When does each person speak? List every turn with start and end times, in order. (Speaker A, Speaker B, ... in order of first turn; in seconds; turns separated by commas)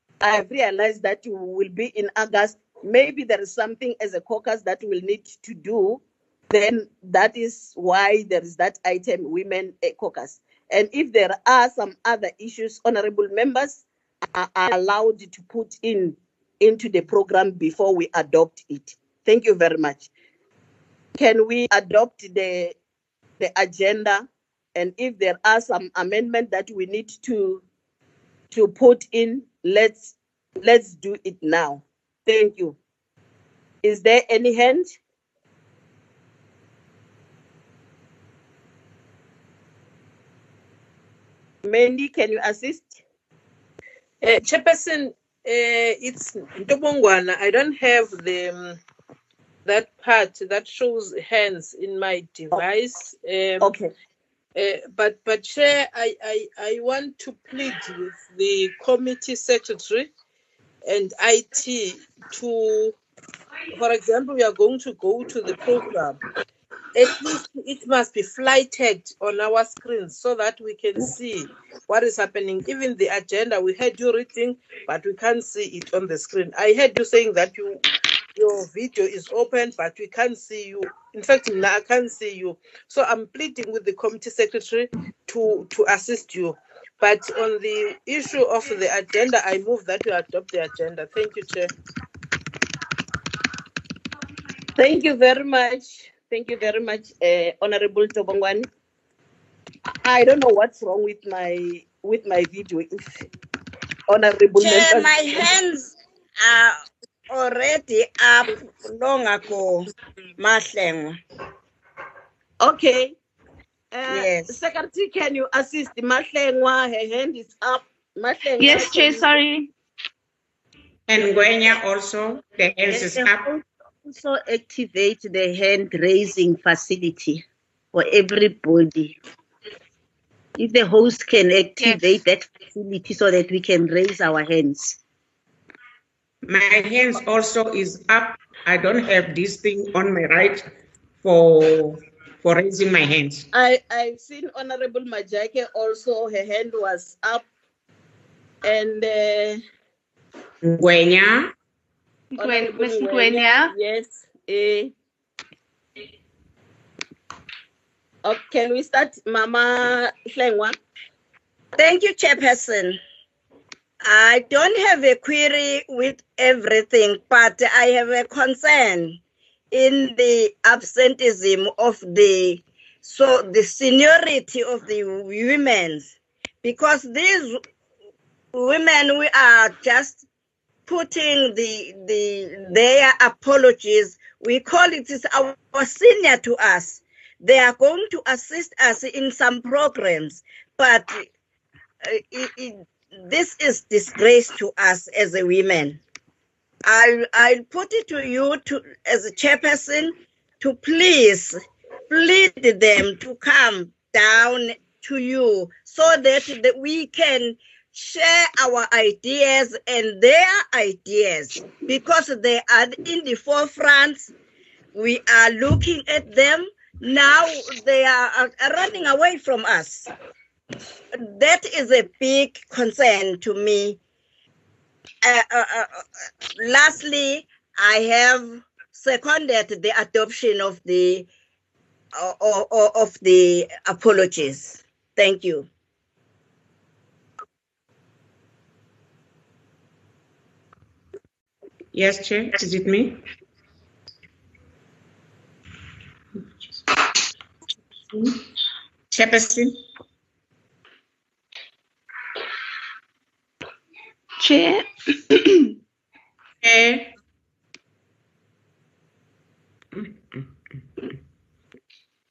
Speaker A: 0.2-20.1, Speaker A: 21.1-22.7, Speaker A: 23.4-27.6, Speaker A: 28.5-32.8, Speaker A: 33.8-34.9, Speaker A: 41.6-43.0, Speaker B: 44.2-48.8, Speaker B: 49.6-53.7, Speaker A: 53.6-53.9, Speaker B: 54.5-60.1, Speaker B: 60.8-63.0, Speaker B: 63.7-66.2, Speaker B: 66.9-77.8, Speaker B: 78.3-91.7, Speaker A: 94.8-98.7, Speaker A: 100.0-103.2, Speaker A: 104.1-105.5, Speaker C: 104.6-111.2, Speaker A: 112.6-113.2, Speaker A: 113.9-119.3, Speaker C: 114.1-114.5, Speaker D: 118.6-119.7, Speaker E: 121.1-123.5, Speaker F: 122.9-129.2, Speaker F: 130.6-135.0, Speaker E: 136.4-140.7, Speaker E: 141.2-143.4, Speaker A: 143.5-147.4, Speaker A: 148.6-149.6, Speaker E: 150.6-151.5, Speaker A: 152.3-154.9, Speaker D: 152.4-153.7, Speaker A: 158.2-160.8, Speaker C: 161.8-163.0, Speaker C: 164.0-169.2, Speaker C: 169.7-177.6, Speaker C: 178.5-180.2, Speaker C: 180.9-191.3, Speaker C: 192.0-196.0, Speaker C: 196.8-214.3, Speaker C: 214.9-220.1, Speaker C: 221.1-224.0, Speaker C: 225.2-231.3, Speaker C: 232.1-235.7, Speaker E: 241.9-243.2, Speaker E: 249.1-249.7, Speaker D: 254.4-255.7, Speaker E: 256.6-257.1, Speaker E: 259.9-260.4